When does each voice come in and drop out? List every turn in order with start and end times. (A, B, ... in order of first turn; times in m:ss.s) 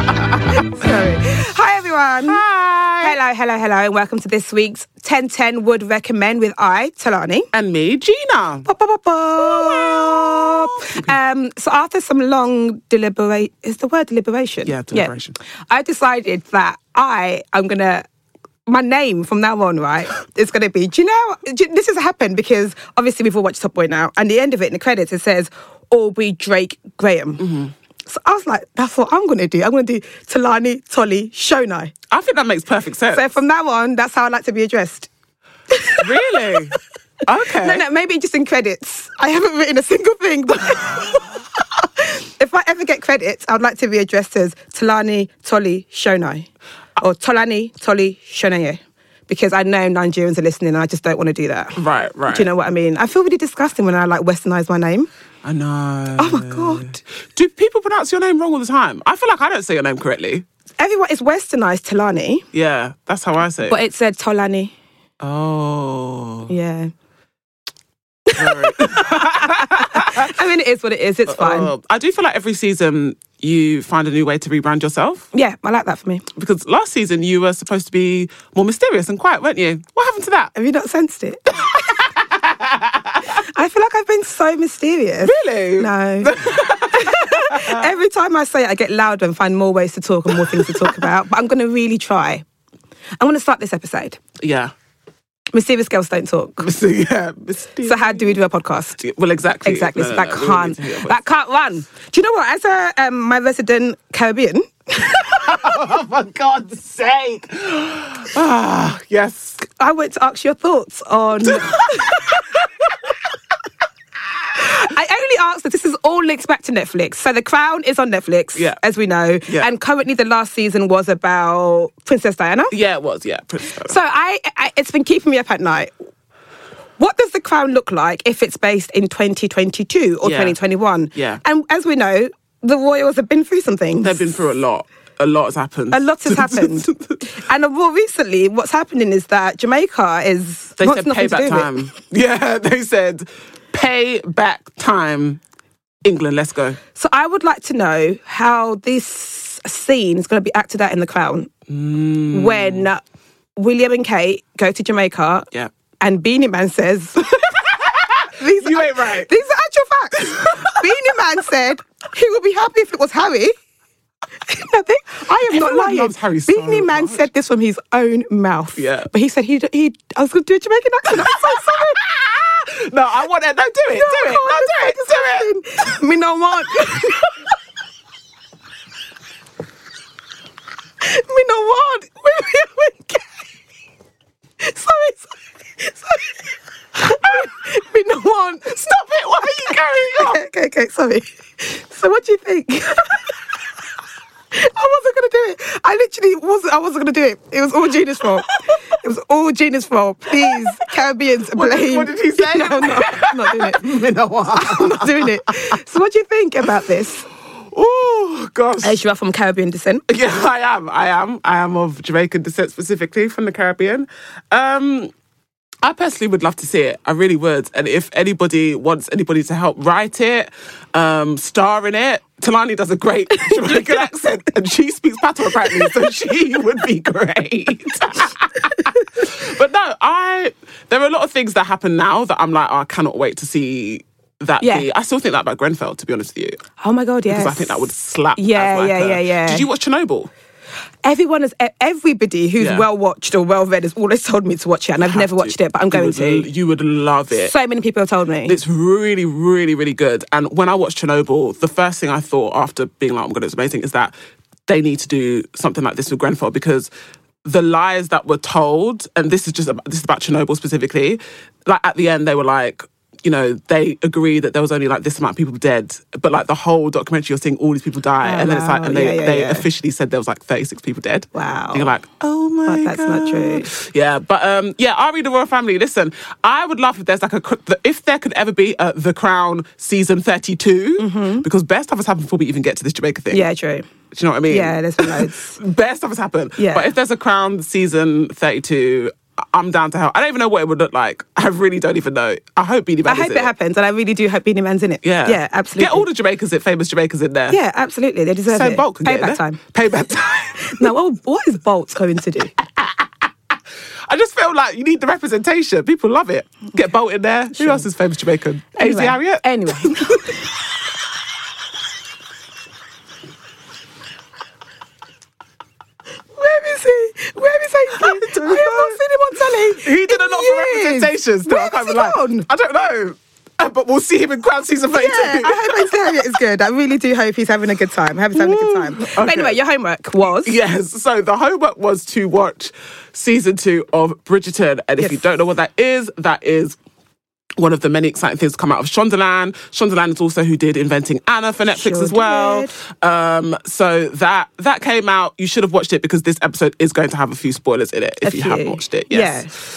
0:00.5-0:02.4 A
0:02.2-0:03.2 B
0:03.0-0:07.5 A
0:07.5-0:08.7 B
0:08.6-0:15.1 A
0:09.4-0:11.1 B
0:14.6-0:15.4 B
0:15.7-0:18.0 A
0:18.6-0:27.5 A
0:27.4-0:27.7 B
0:28.0-0:31.9 A
0:32.1-0:33.2 B
0:33.1-0:35.1 A
0:35.7-0:36.8 A
0:36.0-0:37.8 B
0:37.6-0:55.1 A
0:51.8-0:52.5 B
0:55.4-1:00.4 B
0:56.2-0:57.0 A
1:00.8-1:02.4 A
1:02.5-1:03.8 B
1:03.6-1:04.7 A
1:05.2-1:06.5 B
1:06.5-1:06.9 A
1:08.3-1:11.7 A
1:08.4-1:10.4 B
1:11.3-1:15.3 B
1:15.3-1:16.2 A
1:16.3-1:20.5 B
1:20.5-1:22.0 A
1:21.6-1:23.3 B
1:23.3-1:32.4 A
1:25.2-1:27.9 B
1:30.3-1:31.1 B
1:33.2-1:34.2 A
1:34.4-1:34.7 B
1:35.5-1:36.7 A
1:36.6-1:38.4 B
1:37.8-1:39.0 A
1:39.0-1:41.2 B
1:39.6-1:45.6 A
1:45.2-1:49.6 B
1:49.8-1:52.4 A
1:51.4-1:53.1 B
1:54.6-2:02.7 A
2:02.7-2:04.0 B
2:03.8-2:05.9 A
2:07.0-2:14.3 A
2:10.2-2:10.6 B
2:11.1-2:11.4 B
2:14.0-2:17.2 B
2:15.9-2:21.7 A
2:20.8-2:25.4 B
2:26.0-2:26.8 B
2:26.9-2:31.5 A
2:31.7-2:32.9 B
2:32.3-2:33.0 A
2:33.6-2:35.5 A
2:36.0-2:37.6 A
2:37.5-2:39.3 B
2:38.3-2:43.5 A
2:40.3-2:40.8 B
2:44.4-2:52.0 A
2:45.5-2:47.2 B
2:48.8-2:49.1 B
2:51.1-2:55.5 B
2:53.9-2:57.4 A
3:01.0-3:03.3 A
3:04.6-3:06.4 A
3:07.0-3:08.9 A
3:08.7-3:10.4 B
3:09.4-3:13.3 A
3:14.5-3:23.9 A
3:20.4-3:20.8 B
3:21.5-3:25.8 B
3:24.5-3:27.3 A
3:27.7-3:29.0 B
3:28.8-3:30.0 A
3:30.1-3:35.1 B
3:35.8-3:56.6 B
3:54.6-3:54.9 A
3:56.8-3:57.8 A
3:57.3-4:00.3 B
3:58.4-3:59.7 A
4:01.0-4:06.5 A
4:02.6-4:02.8 B
4:05.0-4:07.5 B
4:07.4-4:08.6 A
4:08.4-4:14.1 B
4:14.7-4:16.9 B
4:17.4-4:43.4 B
4:28.2-4:29.7 A
4:31.3-4:31.9 A
4:32.6-4:33.7 A
4:41.0-4:41.5 A
4:43.3-4:43.9 A
4:44.1-4:53.5 B
4:44.5-4:45.6 A
4:46.6-4:46.9 A
4:53.0-4:56.0 A
4:55.0-4:57.6 B
4:57.5-4:59.6 A
4:58.5-5:00.9 B
5:00.6-5:02.5 A
5:02.7-5:03.3 B
5:04.1-5:10.4 B
5:08.8-5:10.5 A
5:16.4-5:22.4 A
5:17.9-5:19.0 B
5:19.7-5:26.2 B
5:24.9-5:30.6 A
5:28.3-5:29.6 B
5:30.2-5:36.8 B
5:37.6-5:49.5 B
5:41.7-5:42.7 A
5:48.2-5:49.5 A